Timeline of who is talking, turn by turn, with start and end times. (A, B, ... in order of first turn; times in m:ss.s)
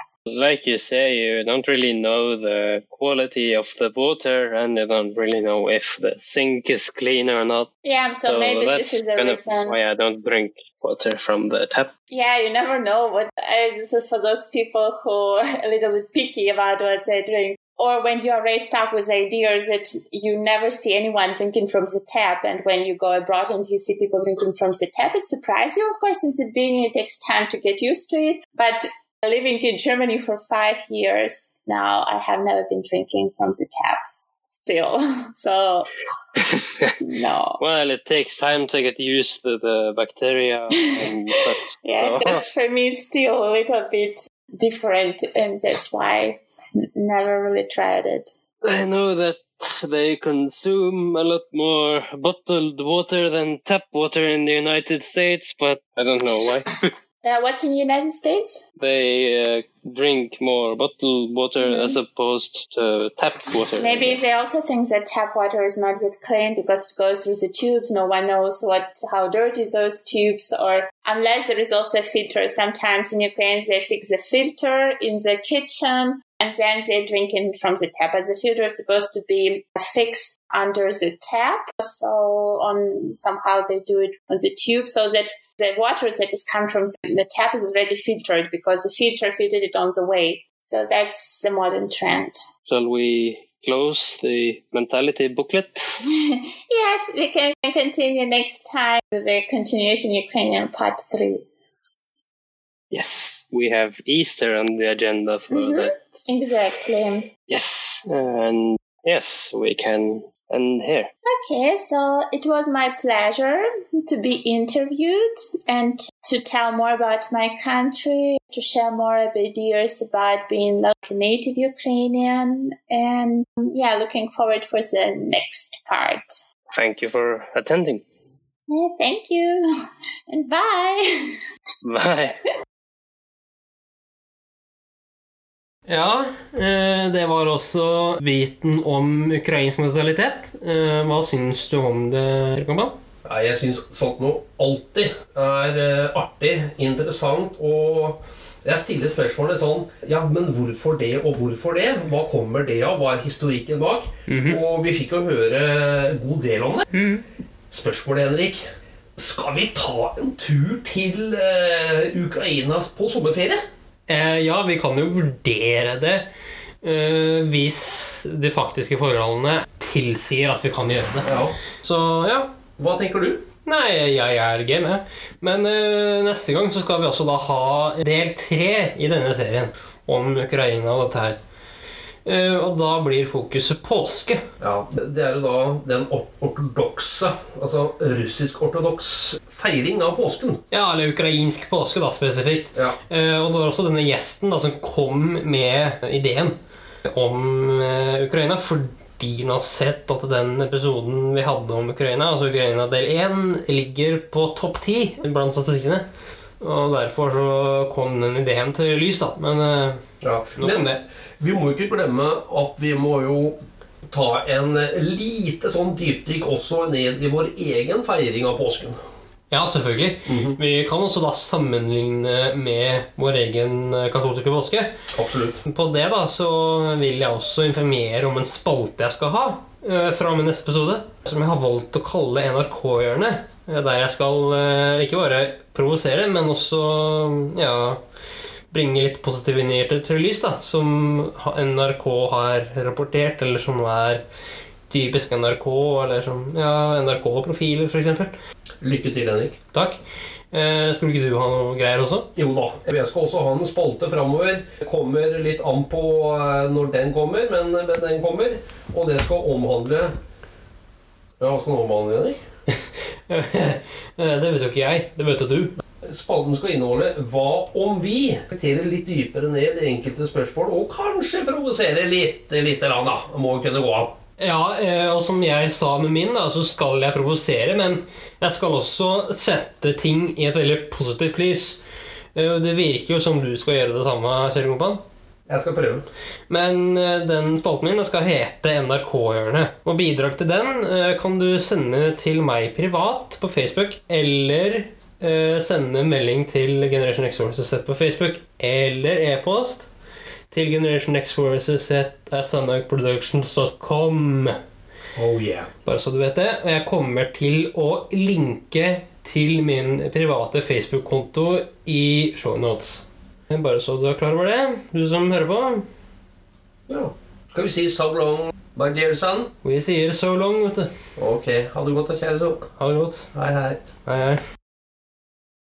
0:00.3-0:07.7 A
0:07.8-0:09.8 B
0:08.3-0:11.9 A
0:12.1-0:35.9 B
0:36.4-0:37.0 A
0:37.0-0:37.6 B
0:37.6-0:42.4 A
0:40.8-0:48.3 B
0:48.6-0:56.9 A
0:57.2-0:58.6 B
0:58.8-1:04.2 A
1:01.6-1:02.0 B
1:03.8-1:32.4 B
1:32.7-1:36.0 A
1:36.0-1:41.5 B
1:42.9-1:46.2 A
1:45.5-1:47.3 B
1:47.5-1:51.1 A
1:51.3-2:06.4 B
2:06.7-2:08.0 A
2:08.7-2:09.7 B
2:10.3-2:11.4 B
2:11.8-2:12.4 A
2:15.9-2:23.0 C
2:23.2-2:36.9 D
2:34.3-2:34.6 C
2:36.9-2:37.2 C
2:37.7-2:38.6 D
2:39.2-2:43.6 D
2:44.1-2:46.3 C
2:46.8-2:52.6 C
2:51.2-2:51.6 D
2:52.8-2:53.4 D
2:53.6-3:01.4 C
3:02.2-3:04.4 C
3:04.6-3:10.6 D
3:10.7-3:26.1 C
3:26.6-3:31.0 C
3:30.2-3:39.0 D
3:39.5-3:44.9 C
3:40.3-3:40.6 D
3:45.1-3:45.6 D
3:45.6-3:58.0 C
3:58.7-4:04.2 C
4:04.9-4:08.3 C
4:08.8-4:09.6 D
4:09.7-4:10.0 C
4:10.5-4:12.3 C
4:12.4-4:20.1 D
4:21.4-4:22.4 D
4:22.7-4:25.7 C
4:26.0-4:34.2 D
4:34.4-4:41.8 C
4:42.4-4:45.0 C
4:45.5-4:46.1 D
4:46.5-4:59.9 C
5:00.5-5:04.6 C
5:05.2-5:05.7 D
5:05.8-5:15.9 C
5:16.9-5:19.5 D
5:19.6-5:20.9 C
5:21.2-5:22.7 D
5:22.8-5:23.3 C
5:23.3-5:23.8 D
5:24.0-5:24.4 C